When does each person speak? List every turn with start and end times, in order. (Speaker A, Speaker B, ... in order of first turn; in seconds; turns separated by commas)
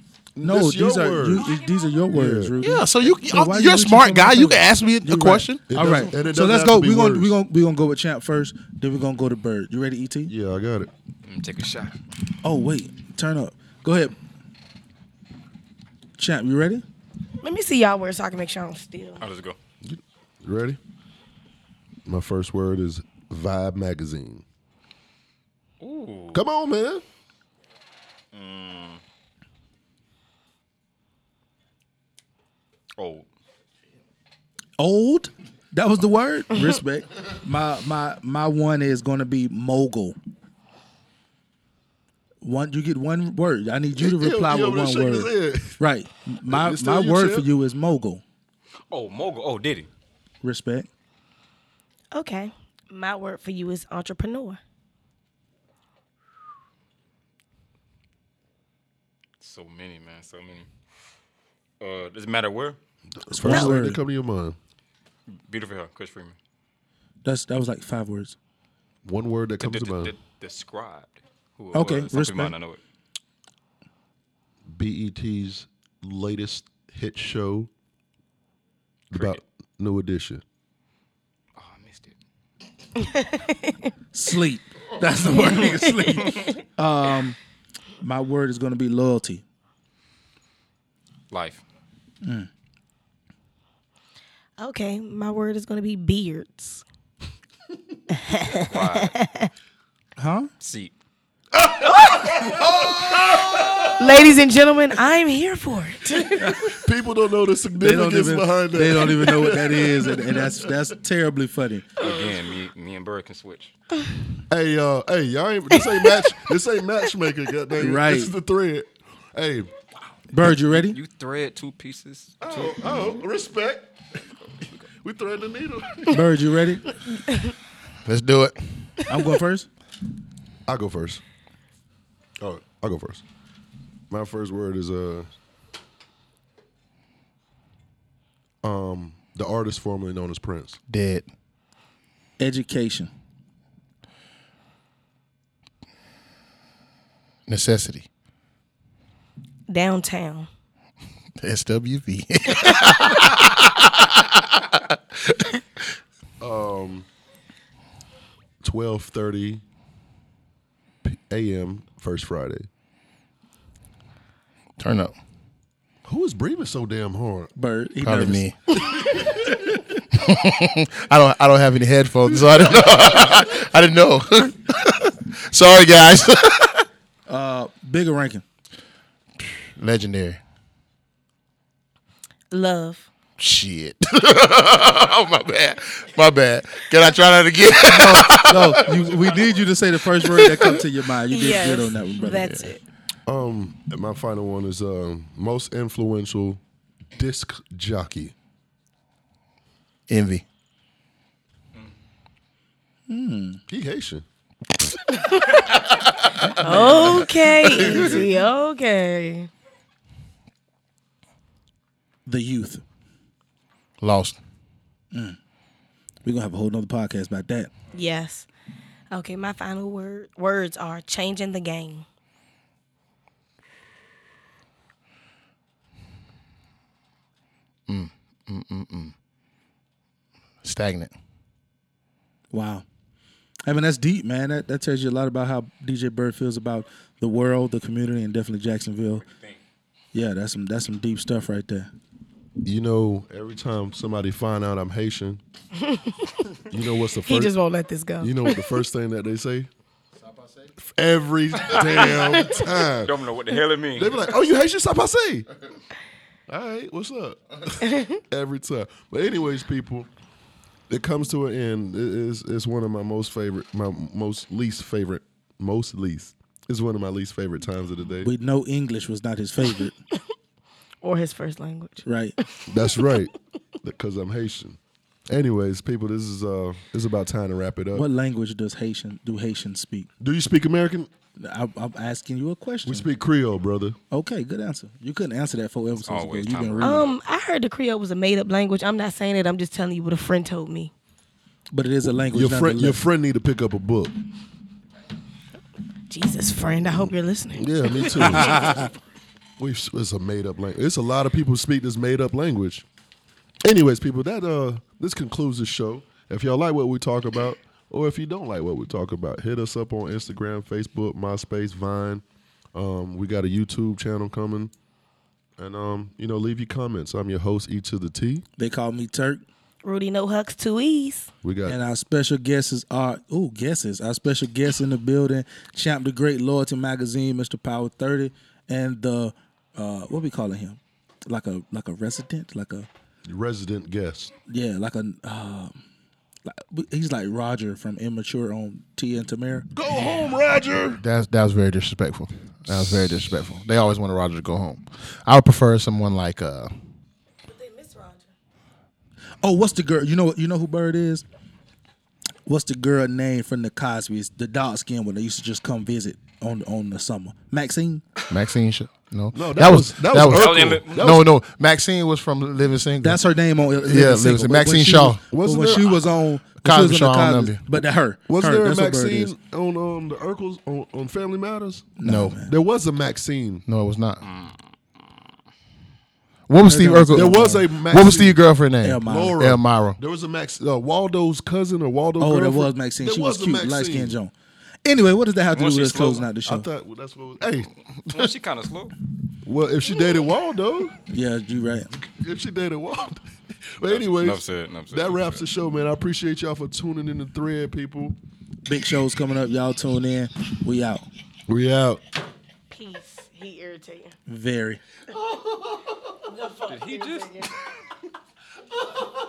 Speaker A: 0.3-1.5, Speaker B: 0.4-10.3, Speaker A: 2.1-2.5, Speaker C: 2.6-5.7, Speaker A: 5.7-7.3, Speaker A: 10.2-10.9, Speaker D: 11.2-11.9, Speaker B: 12.4-14.2, Speaker B: 16.2-16.8, Speaker E: 17.4-19.2, Speaker D: 19.2-19.6, Speaker A: 19.8-20.8, Speaker A: 22.1-24.4, Speaker D: 25.8-26.4, Speaker A: 26.3-27.0, Speaker D: 28.3-29.0, Speaker D: 33.0-33.3, Speaker B: 34.8-40.2, Speaker B: 42.4-48.2, Speaker A: 44.0-45.8, Speaker A: 46.5-47.5, Speaker D: 48.9-49.9, Speaker B: 50.4-50.9, Speaker E: 52.1-54.6, Speaker D: 59.4-60.7, Speaker D: 61.8-62.8, Speaker A: 63.1-64.6, Speaker B: 63.3-64.0, Speaker E: 63.5-63.7, Speaker D: 65.3-66.3, Speaker B: 67.2-68.4, Speaker A: 69.0-70.1, Speaker D: 69.6-72.8, Speaker B: 71.7-72.5, Speaker A: 74.7-77.7, Speaker A: 79.1-80.4, Speaker D: 79.1-79.4, Speaker D: 81.6-82.2, Speaker E: 83.0-83.9, Speaker B: 84.1-87.4, Speaker E: 85.7-86.3, Speaker B: 88.0-89.4, Speaker D: 91.3-91.6, Speaker B: 92.2-92.5, Speaker E: 94.6-96.8, Speaker E: 98.1-99.5, Speaker D: 98.6-99.2, Speaker B: 100.2-100.5, Speaker D: 100.6-100.9, Speaker A: 101.5-104.2, Speaker E: 103.9-106.8, Speaker B: 106.4-106.7, Speaker A: 106.7-110.5, Speaker B: 107.8-112.0, Speaker D: 112.0-113.7, Speaker A: 112.0-112.4, Speaker A: 114.5-119.7, Speaker E: 115.8-116.3, Speaker B: 117.8-118.3, Speaker B: 120.3-121.0, Speaker D: 120.7-123.2, Speaker A: 122.4-123.9, Speaker A: 125.0-126.2, Speaker B: 126.1-127.0, Speaker C: 128.0-129.1, Speaker B: 129.1-129.7, Speaker A: 130.7-131.2, Speaker A: 132.4-133.2, Speaker A: 134.1-135.3, Speaker A: 138.6-140.8, Speaker C: 140.9-141.3, Speaker B: 142.4-143.1, Speaker C: 147.5-148.1, Speaker E: 149.7-150.5, Speaker C: 151.4-155.6, Speaker A: 156.4-157.1, Speaker A: 158.6-159.6, Speaker A: 161.0-162.7, Speaker C: 164.8-165.1, Speaker A: 166.0-167.5, Speaker B: 167.6-168.5, Speaker C: 168.0-169.5, Speaker C: 170.1-176.8, Speaker B: 177.3-178.4, Speaker C: 179.4-180.4, Speaker E: 182.5-183.1, Speaker C: 183.4-189.0, Speaker B: 187.9-192.5, Speaker C: 190.2-190.8, Speaker E: 191.3-192.8, Speaker C: 192.4-192.7, Speaker A: 193.3-196.6, Speaker A: 197.2-198.3, Speaker C: 200.1-200.4, Speaker B: 203.1-203.6, Speaker A: 203.7-204.2, Speaker E: 205.1-205.8, Speaker C: 205.8-208.1, Speaker E: 206.5-209.5, Speaker B: 206.6-207.2, Speaker A: 207.8-208.2, Speaker B: 212.2-212.8, Speaker C: 214.0-214.4, Speaker B: 215.1-215.4, Speaker B: 216.2-217.7, Speaker E: 217.9-218.5, Speaker E: 219.1-222.0, Speaker C: 227.9-229.1, Speaker C: 230.6-231.1, Speaker B: 232.5-232.8, Speaker B: 233.7-239.2, Speaker D: 239.3-239.6, Speaker B: 240.1-241.9, Speaker A: 242.6-245.4, Speaker E: 245.8-246.5, Speaker A: 246.7-247.5, Speaker E: 247.2-248.7, Speaker A: 248.2-249.7, Speaker A: 250.8-253.1, Speaker D: 251.7-252.1, Speaker E: 251.7-252.7, Speaker D: 253.0-254.2, Speaker A: 253.9-255.5, Speaker A: 256.5-260.1, Speaker E: 257.8-258.2, Speaker A: 260.9-268.3, Speaker B: 268.2-269.9, Speaker E: 271.0-273.2, Speaker B: 272.0-272.4, Speaker A: 272.7-278.0, Speaker B: 277.9-280.1, Speaker A: 280.2-281.1, Speaker B: 281.4-283.1, Speaker A: 282.9-284.0, Speaker B: 284.1-287.1, Speaker D: 286.0-287.1, Speaker E: 286.8-290.9, Speaker B: 291.7-293.0, Speaker A: 292.3-294.1, Speaker E: 296.1-298.8, Speaker A: 297.6-298.9, Speaker A: 299.6-302.8, Speaker A: 303.6-312.2, Speaker A: 312.7-314.7, Speaker A: 315.6-318.4, Speaker B: 318.6-319.4, Speaker E: 319.8-321.3, Speaker A: 321.4-321.8, Speaker B: 321.6-332.9, Speaker A: 333.2-334.3, Speaker B: 334.5-335.8, Speaker B: 336.4-339.7, Speaker A: 339.7-341.0, Speaker C: 341.0-346.7, Speaker E: 347.4-348.3, Speaker B: 349.4-351.2, Speaker B: 352.4-358.1, Speaker C: 358.3-363.2, Speaker A: 359.3-361.2, Speaker D: 360.2-361.1, Speaker B: 363.0-369.3, Speaker C: 363.8-365.2, Speaker A: 365.2-366.1, Speaker C: 366.6-367.6, Speaker A: 368.3-373.6, Speaker B: 372.0-372.5, Speaker C: 372.0-372.4, Speaker C: 373.7-374.2, Speaker D: 374.2-374.7, Speaker C: 376.5-380.0, Speaker B: 376.6-377.7, Speaker A: 377.1-378.4, Speaker B: 378.8-379.4, Speaker A: 379.0-384.1, Speaker B: 382.2-384.3, Speaker B: 384.8-386.7, Speaker D: 385.5-386.3, Speaker A: 386.4-387.7, Speaker D: 388.0-388.9, Speaker A: 389.4-391.0, Speaker B: 391.1-391.9, Speaker A: 392.0-393.2, Speaker A: 393.8-398.1, Speaker D: 393.8-395.4, Speaker B: 398.6-401.0, Speaker A: 401.5-402.0, Speaker E: 402.7-404.1, Speaker B: 404.3-404.8, Speaker E: 406.2-407.7, Speaker D: 406.7-407.4, Speaker C: 408.9-409.1